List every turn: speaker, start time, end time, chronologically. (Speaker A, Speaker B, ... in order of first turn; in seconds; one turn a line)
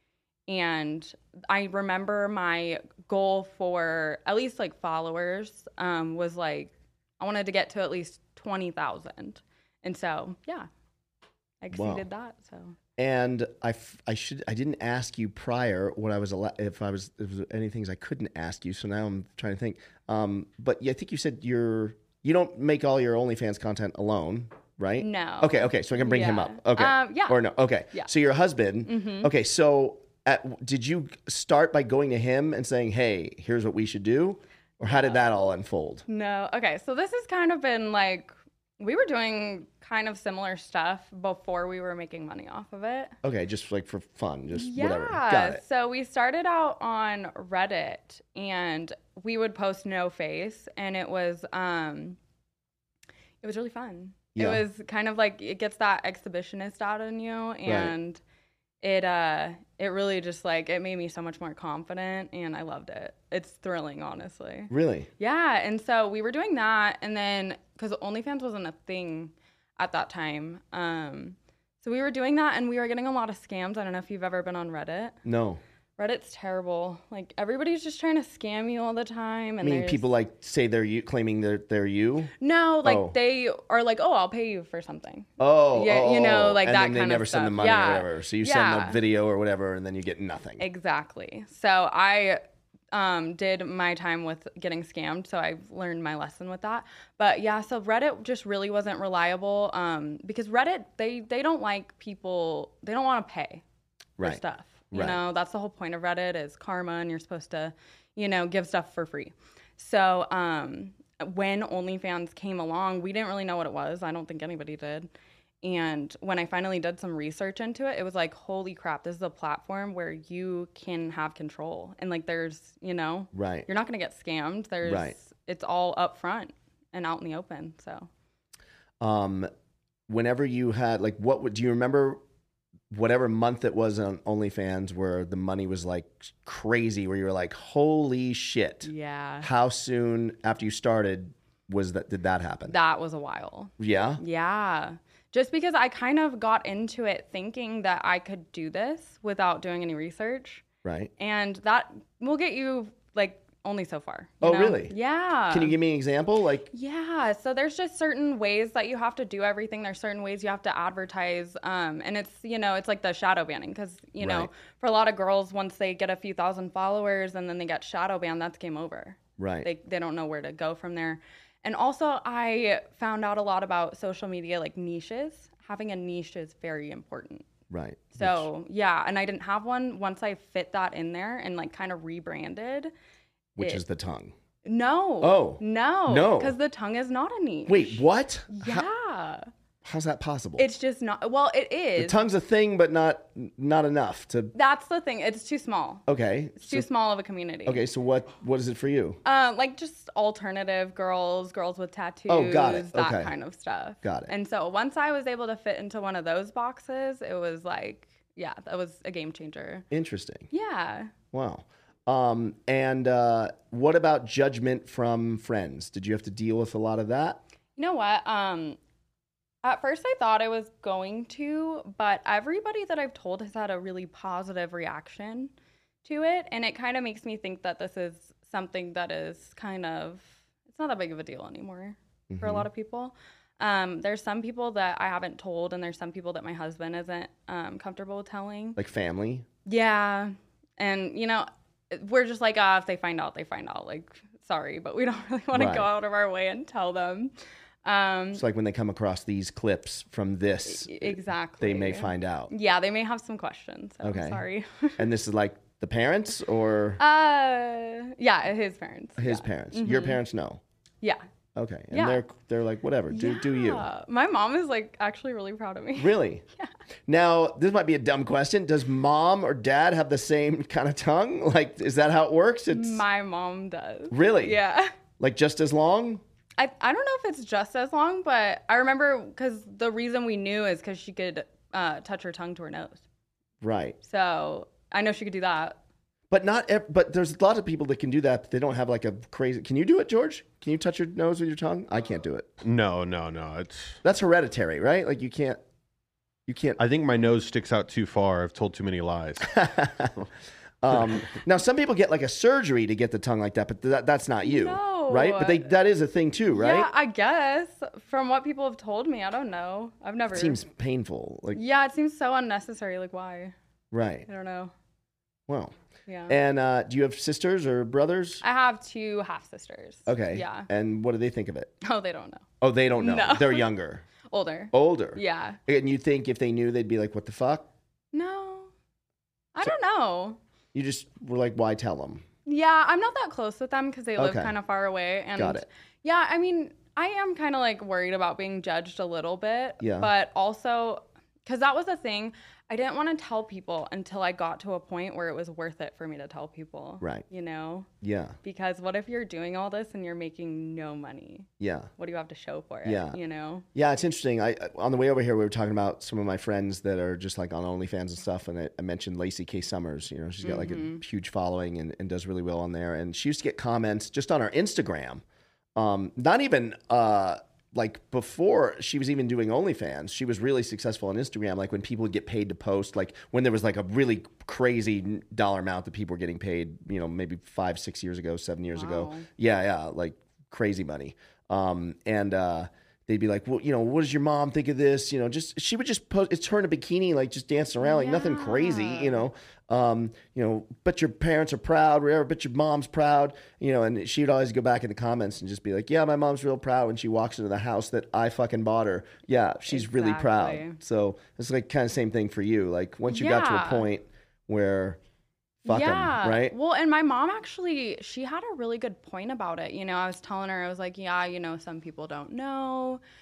Speaker A: 0.5-10.7
Speaker A: 11.6-12.8
Speaker B: 11.7-12.1
Speaker B: 13.0-36.0
Speaker A: 25.0-28.1
Speaker A: 28.9-29.3
Speaker A: 34.9-35.2
Speaker A: 36.1-43.1
Speaker B: 43.2-45.6
Speaker A: 44.5-52.2
Speaker A: 53.4-58.2
Speaker B: 54.4-54.6
Speaker B: 57.7-57.9
Speaker A: 58.8-75.2
Speaker B: 64.7-65.1
Speaker B: 75.2-75.6
Speaker A: 76.0-80.0
Speaker B: 79.6-82.3
Speaker A: 82.4-89.0
Speaker B: 82.8-83.2
Speaker B: 85.4-90.6
Speaker A: 90.6-92.4
Speaker A: 92.9-103.6
Speaker A: 104.2-115.1
Speaker B: 104.9-105.2
Speaker A: 115.6-128.1
Speaker B: 123.3-123.7
Speaker B: 124.8-125.2
Speaker B: 129.0-129.5
Speaker B: 130.1-132.2
Speaker B: 132.9-138.9
Speaker A: 138.8-139.5
Speaker B: 139.4-142.8
Speaker A: 142.7-150.6
Speaker B: 143.8-144.2
Speaker B: 150.8-151.1
Speaker A: 151.2-155.8
Speaker B: 154.4-154.9
Speaker B: 155.5-156.7
Speaker A: 156.7-177.5
Speaker B: 164.2-164.5
Speaker B: 169.4-169.7
Speaker B: 177.7-178.5
Speaker A: 178.1-182.9
Speaker B: 183.6-184.3
Speaker A: 184.6-189.4
Speaker B: 185.2-186.6
Speaker B: 187.7-188.9
Speaker B: 189.8-190.7
Speaker A: 190.6-192.2
Speaker B: 192.0-194.5
Speaker A: 194.5-196.1
Speaker B: 196.1-196.9
Speaker A: 196.6-197.8
Speaker B: 197.7-199.2
Speaker A: 199.2-209.9
Speaker B: 202.3-203.3
Speaker B: 204.0-204.3
Speaker B: 209.9-210.5
Speaker A: 210.5-211.1
Speaker B: 211.3-217.4
Speaker A: 217.8-218.8
Speaker A: 219.6-225.5
Speaker A: 226.0-238.8
Speaker B: 232.3-232.7
Speaker B: 238.8-239.5
Speaker A: 239.7-247.3
Speaker B: 245.5-245.9
Speaker A: 247.8-248.4
Speaker B: 248.3-252.5
Speaker A: 250.7-255.0
Speaker B: 254.0-254.4
Speaker B: 255.0-257.0
Speaker A: 257.0-260.2
Speaker B: 259.2-260.6
Speaker B: 261.6-263.9
Speaker A: 261.9-262.2
Speaker A: 263.1-266.7
Speaker B: 266.0-266.4
Speaker B: 267.1-273.0
Speaker A: 272.7-274.9
Speaker B: 274.1-274.6
Speaker B: 275.2-276.2
Speaker A: 276.6-283.0
Speaker B: 283.6-284.0
Speaker A: 284.0-285.8
Speaker B: 286.3-292.6
Speaker C: 292.6-294.0
Speaker B: 294.0-295.6
Speaker B: 296.5-296.8
Speaker C: 296.8-299.6
Speaker B: 299.5-300.3
Speaker B: 300.8-306.9
Speaker A: 304.4-305.7
Speaker A: 306.5-310.6
Speaker B: 310.3-311.6
Speaker A: 311.5-313.5
Speaker B: 313.9-314.3
Speaker A: 314.3-314.7
Speaker B: 315.5-315.8
Speaker A: 316.1-316.4
Speaker B: 316.3-318.4
Speaker A: 318.4-320.7
Speaker B: 320.1-321.7
Speaker A: 321.8-322.4
Speaker B: 322.6-324.1
Speaker A: 323.0-323.7
Speaker A: 324.3-325.6
Speaker B: 324.7-327.7
Speaker A: 328.1-328.7
Speaker A: 329.6-330.4
Speaker B: 330.7-332.2
Speaker A: 332.4-347.9
Speaker B: 334.2-334.5
Speaker B: 335.4-335.6
Speaker B: 339.8-340.1
Speaker B: 348.0-348.4
Speaker A: 348.4-353.7
Speaker B: 351.6-351.9
Speaker B: 352.8-353.2
Speaker B: 353.7-365.2
Speaker A: 360.4-361.0
Speaker B: 365.8-405.0
Speaker A: 378.8-379.3
Speaker A: 387.8-389.2
Speaker A: 399.7-400.8
Speaker A: 403.1-403.9
Speaker B: 405.6-406.6
Speaker A: 405.7-413.0